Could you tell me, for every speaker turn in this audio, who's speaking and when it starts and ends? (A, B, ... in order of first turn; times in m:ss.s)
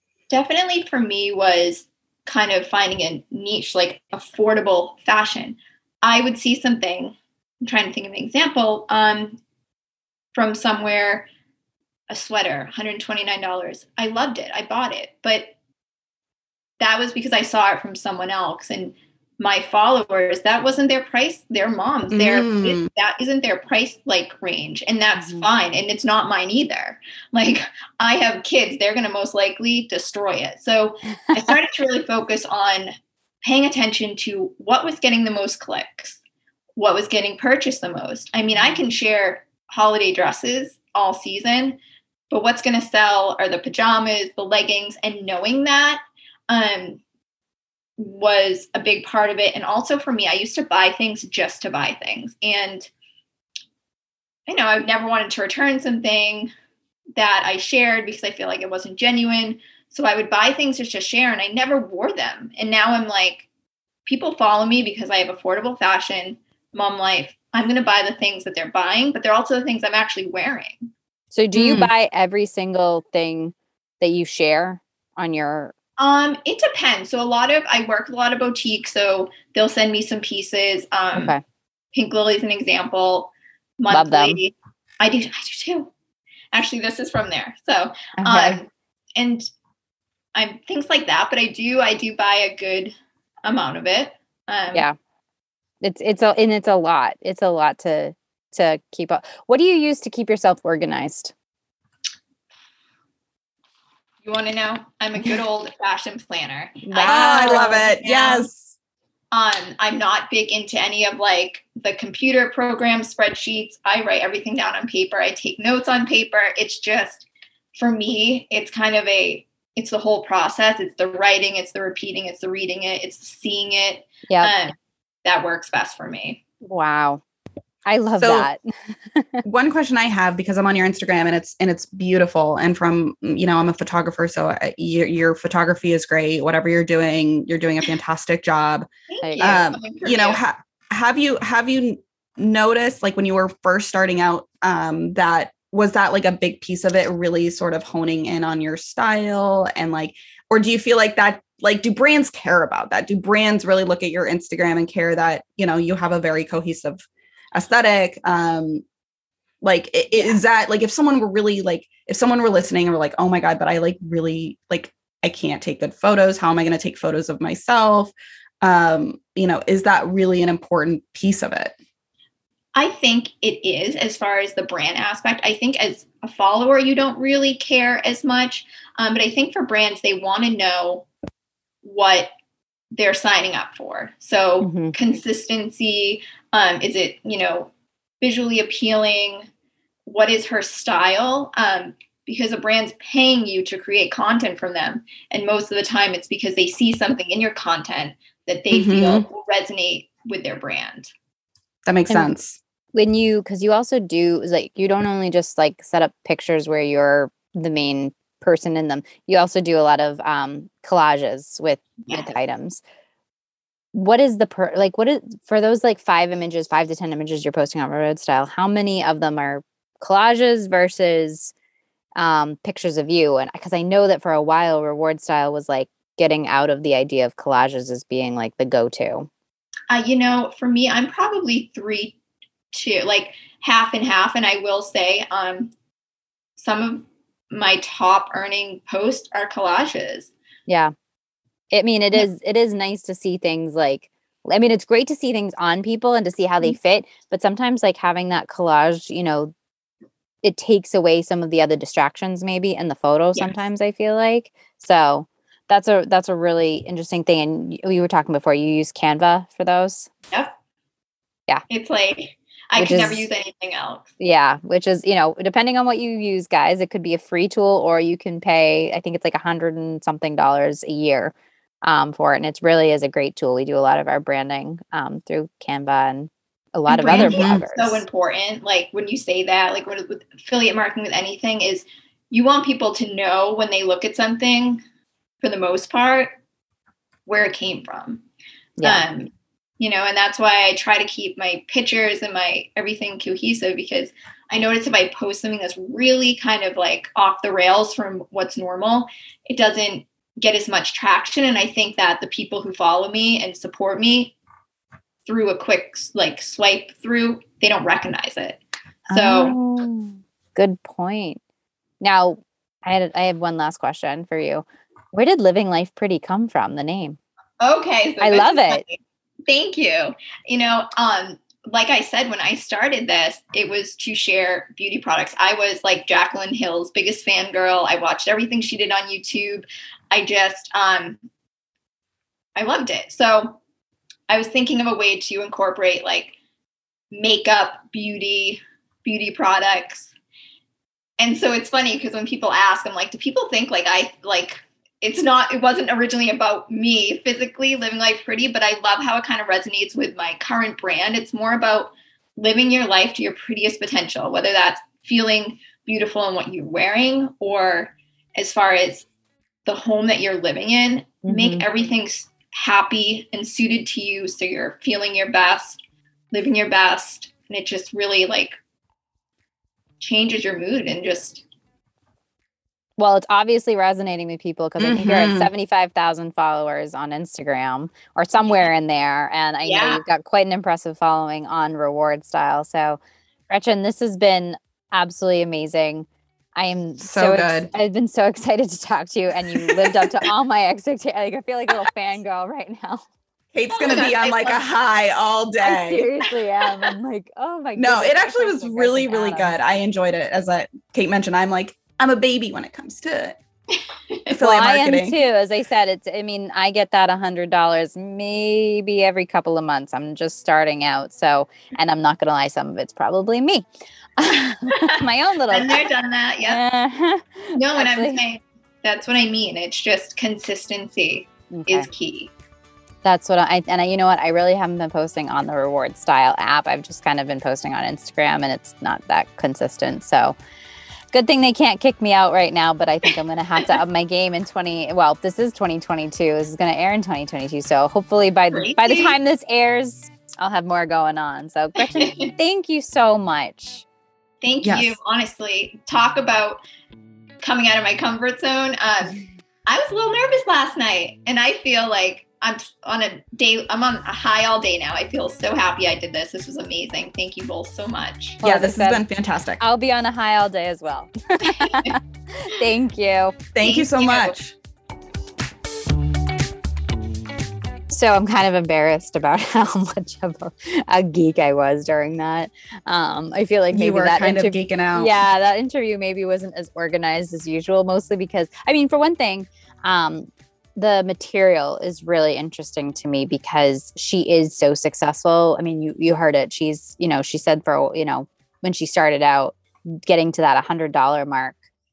0:00.3-0:09.4 A
0:10.3-0:11.3 A
0:12.1-0:15.5 A
0:16.8-0:36.2 A
0:22.1-0:22.8 B
0:36.8-0:47.0 A
0:38.5-0:38.8 C
0:48.0-0:52.9 A
0:54.5-0:56.5 A
0:57.2-1:03.5 A
1:04.0-1:10.9 A
1:11.3-1:15.7 C
1:11.5-1:11.9 B
1:16.0-1:21.3 A
1:21.1-1:21.4 C
1:21.9-1:25.9 A
1:23.9-1:24.4 C
1:26.5-1:29.5 A
1:28.2-1:28.6 C
1:30.3-1:34.8 A
1:35.8-1:41.3 C
1:44.2-1:48.5 A
1:46.8-1:47.8 C
1:47.0-1:48.7 B
1:49.3-2:06.4 A
2:04.3-2:04.7 C
2:06.6-2:07.2 C
2:07.8-2:08.6 C
2:08.2-2:08.5 B
2:09.1-2:09.4 C
2:09.4-2:18.9 B
2:19.1-2:20.4 A
2:19.2-2:19.5 C
2:19.4-2:38.8 B
2:39.6-2:51.7 B
2:40.1-2:40.4 A
2:52.7-3:01.1 A
3:01.8-3:02.3 A
3:02.9-3:07.7 A
3:04.6-3:04.9 C
3:08.2-3:09.5 A
3:10.0-3:21.1 A
3:18.7-3:19.2 B
3:21.8-3:22.6 B
3:22.9-3:32.8 C
3:32.0-3:32.3 A
3:33.9-3:41.5 C
3:42.2-3:49.3 C
3:49.9-3:52.1 A
3:52.7-3:55.7 A
3:56.6-4:00.3 A
4:00.7-4:00.9 C
4:01.7-4:09.5 C
4:10.4-4:20.1 C
4:21.7-4:24.1 A
4:22.8-4:23.2 C
4:24.2-4:38.0 C
4:36.9-4:44.8 A
4:37.1-4:37.6 B
4:45.4-4:46.3 A
4:47.3-4:48.2 A
4:48.8-4:49.0 C
4:48.8-5:04.3 A
5:05.2-5:08.6 A
5:09.1-5:11.4 C
5:09.1-5:09.6 A
5:12.0-5:17.2 C
5:17.6-5:31.2 A
5:18.2-5:18.8 C
5:32.6-5:33.6 A
5:34.3-5:36.3 A
5:37.1-5:40.1 A
5:41.2-5:59.0 A
5:59.6-6:05.8 A
6:01.2-6:01.6 C
6:06.3-6:08.6 A
6:10.0-6:11.4 A
6:13.0-6:33.0 C
6:14.8-6:15.5 B
6:19.6-6:20.0 A
6:27.0-6:27.7 B
6:29.7-6:29.9 B
6:33.5-6:36.0 B
6:33.7-6:34.6 A
6:35.6-6:39.6 C
6:37.8-6:43.4 B
6:44.3-6:45.2 B
6:44.4-6:53.6 C
6:54.2-6:55.9 C
6:54.7-6:55.0 A
6:55.5-6:56.6 A
6:56.4-6:58.2 C
6:57.6-7:02.3 A
7:01.5-7:01.9 C
7:03.0-7:10.4 C
7:11.1-7:23.8 C
7:18.5-7:19.2 A
7:21.8-7:22.3 A
7:24.4-7:26.6 A
7:24.6-7:25.0 B
7:27.4-7:38.4 A
7:38.4-7:39.0 C
7:38.4-7:39.6 B
7:39.6-7:43.4 C
7:41.4-7:41.9 A
7:43.5-7:44.5 B
7:43.6-7:44.4 A
7:47.9-8:11.6 C
7:53.7-7:55.1 B